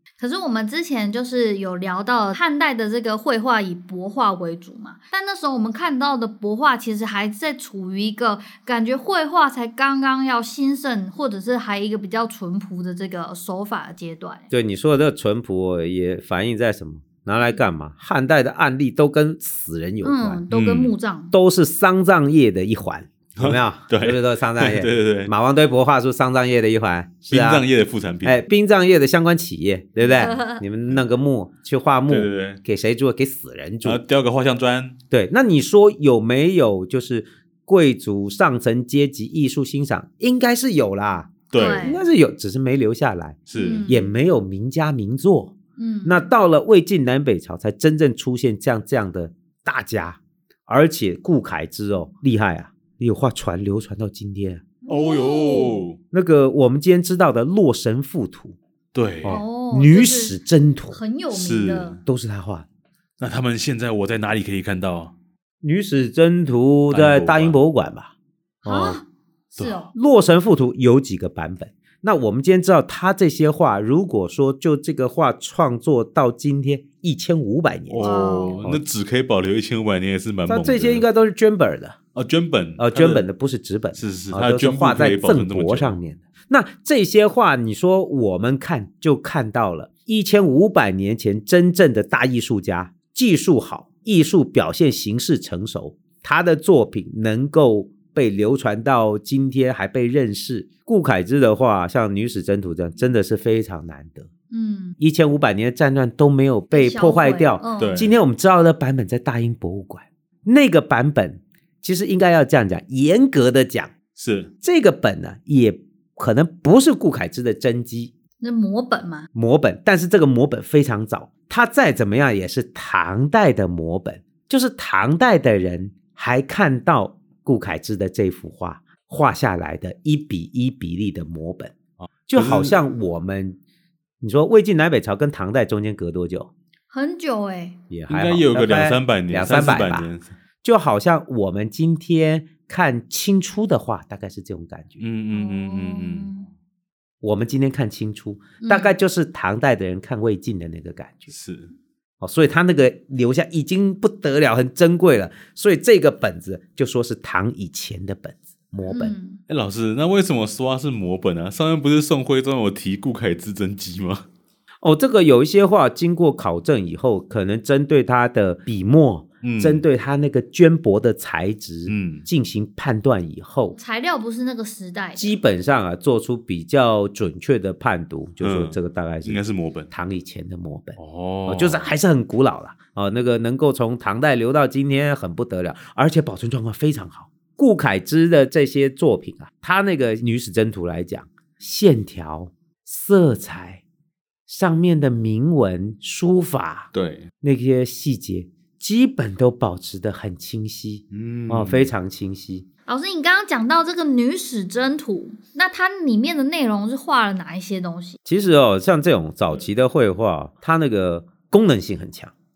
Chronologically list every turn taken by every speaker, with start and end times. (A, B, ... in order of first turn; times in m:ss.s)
0:00.2-0:14.5 A
0:14.5-0:20.4 B
0:20.0-0:21.3 A
0:20.5-0:20.9 C
0:21.3-0:27.6 B
0:23.4-0:25.3 C
0:27.3-0:28.4 C
0:28.2-0:34.0 B
0:30.0-0:30.6 A
0:32.1-0:32.6 C
0:33.8-0:35.0 C
0:35.1-0:54.6 B
0:41.5-0:42.0 C
0:41.5-0:42.0 A
0:43.5-0:43.9 C
0:43.5-0:44.1 A
0:45.8-0:46.3 A
0:54.8-0:55.8 A
0:54.9-0:56.0 C
0:56.1-0:58.6 B
0:58.9-0:59.4 C
0:59.2-1:01.0 B
0:59.2-1:00.4 A
1:00.9-1:02.0 A
1:01.3-1:02.0 C
1:02.0-1:02.6 B
1:03.2-1:05.1 C
1:05.6-1:08.1 B
1:06.9-1:07.6 C
1:08.6-1:09.9 A
1:08.6-1:09.0 B
1:09.9-1:18.1 B
1:17.9-1:21.0 C
1:18.0-1:18.6 A
1:20.5-1:22.0 B
1:22.1-1:23.2 C
1:22.8-1:44.3 B
1:23.9-1:26.0 C
1:44.5-1:45.0 A
1:45.0-1:53.9 B
1:46.7-1:48.1 A
1:47.8-1:48.1 C
1:54.2-1:54.5 C
1:54.6-1:58.1 B
1:58.4-1:59.3 A
1:59.3-2:11.7 B
2:12.3-2:12.8 C
2:12.3-2:13.6 B
2:14.2-2:16.5 B
2:16.9-2:17.8 A
2:17.9-2:20.1 B
2:18.1-2:20.3 C
2:20.6-2:25.0 B
2:25.0-2:26.3 C
2:25.3-2:26.4 A
2:27.2-2:31.3 B
2:28.6-2:28.9 A
2:31.3-2:31.7 C
2:32.2-2:39.1 B
2:38.9-2:39.4 A
2:39.5-2:44.2 C
2:44.8-2:53.7 B
2:49.4-2:49.8 C
2:51.9-2:52.2 C
2:53.7-2:55.4 A
2:55.2-3:13.8 B
2:58.4-2:59.9 C
3:01.0-3:01.9 C
3:14.5-3:16.9 B
3:16.9-3:17.3 C
3:17.4-3:22.6 B
3:21.1-3:21.9 C
3:22.9-3:28.2 A
3:28.2-3:32.3 B